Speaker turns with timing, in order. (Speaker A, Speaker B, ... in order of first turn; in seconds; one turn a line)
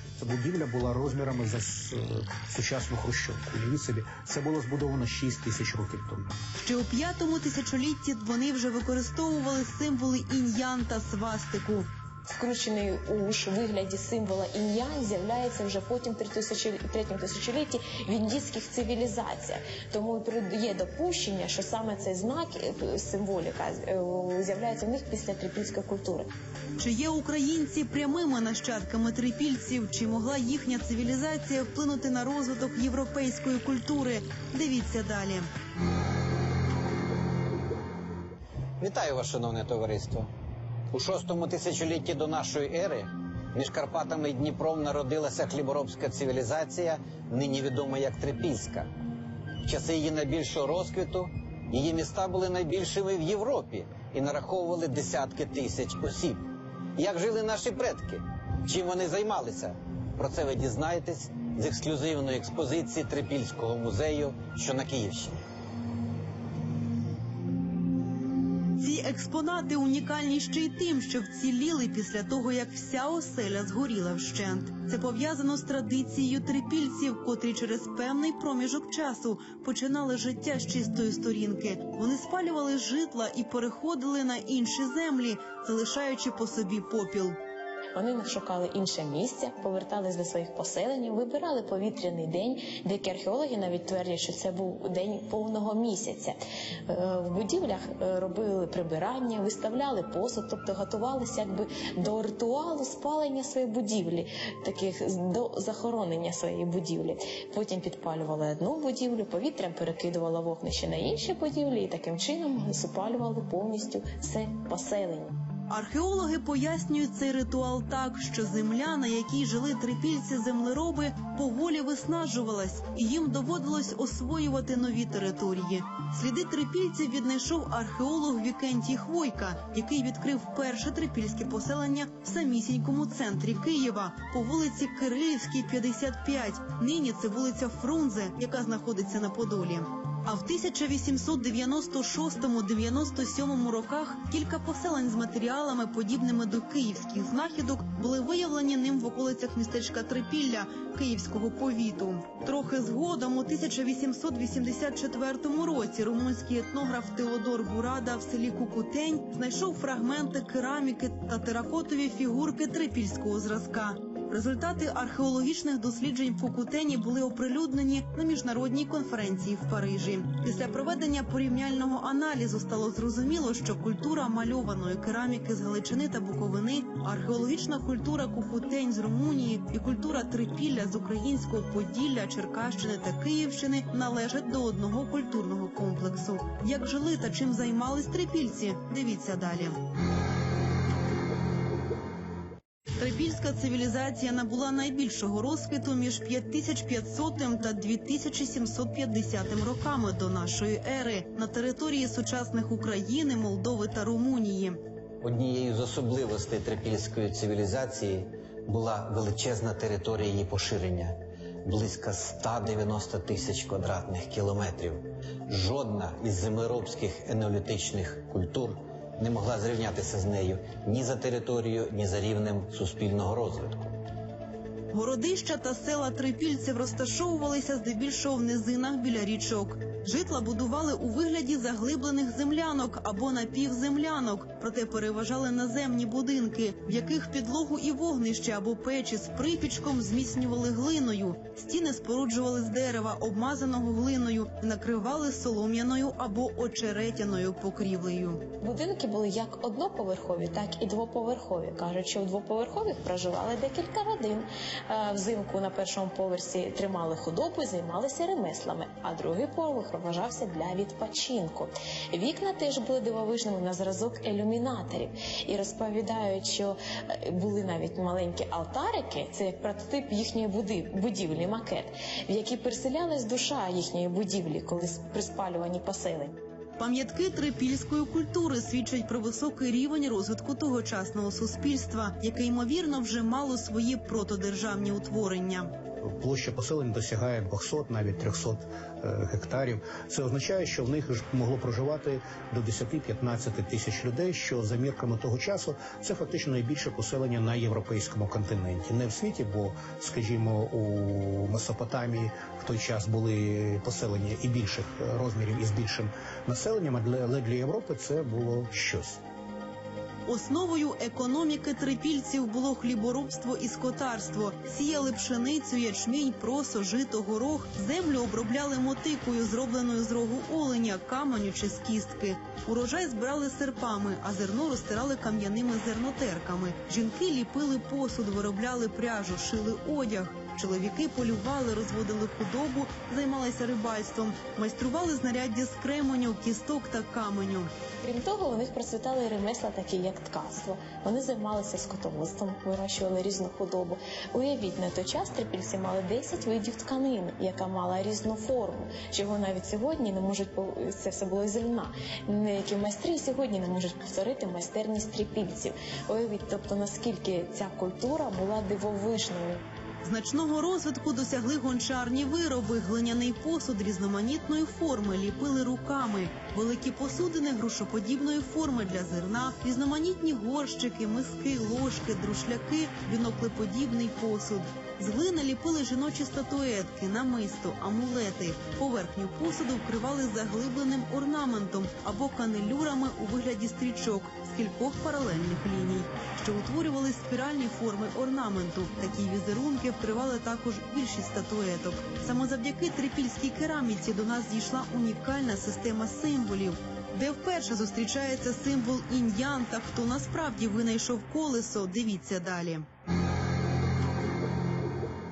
Speaker A: 0.2-6.3
Speaker B: 6.6-11.9
Speaker C: 12.3-26.3
Speaker B: 26.8-35.5
Speaker D: 38.8-40.3
Speaker D: 40.9-48.9
Speaker D: 49.6-65.4
Speaker B: 68.8-87.4
Speaker C: 88.0-96.4
Speaker C: 96.9-115.3
Speaker B: 115.7-189.8
Speaker B: 193.0-204.8
Speaker D: 205.2-223.9
Speaker B: 224.9-248.4
Speaker C: 248.6-276.4
Speaker B: 276.8-285.7
Speaker A: 286.0-309.2
Speaker B: 310.3-337.7
Speaker C: 338.0-359.6
Speaker B: 360.0-402.9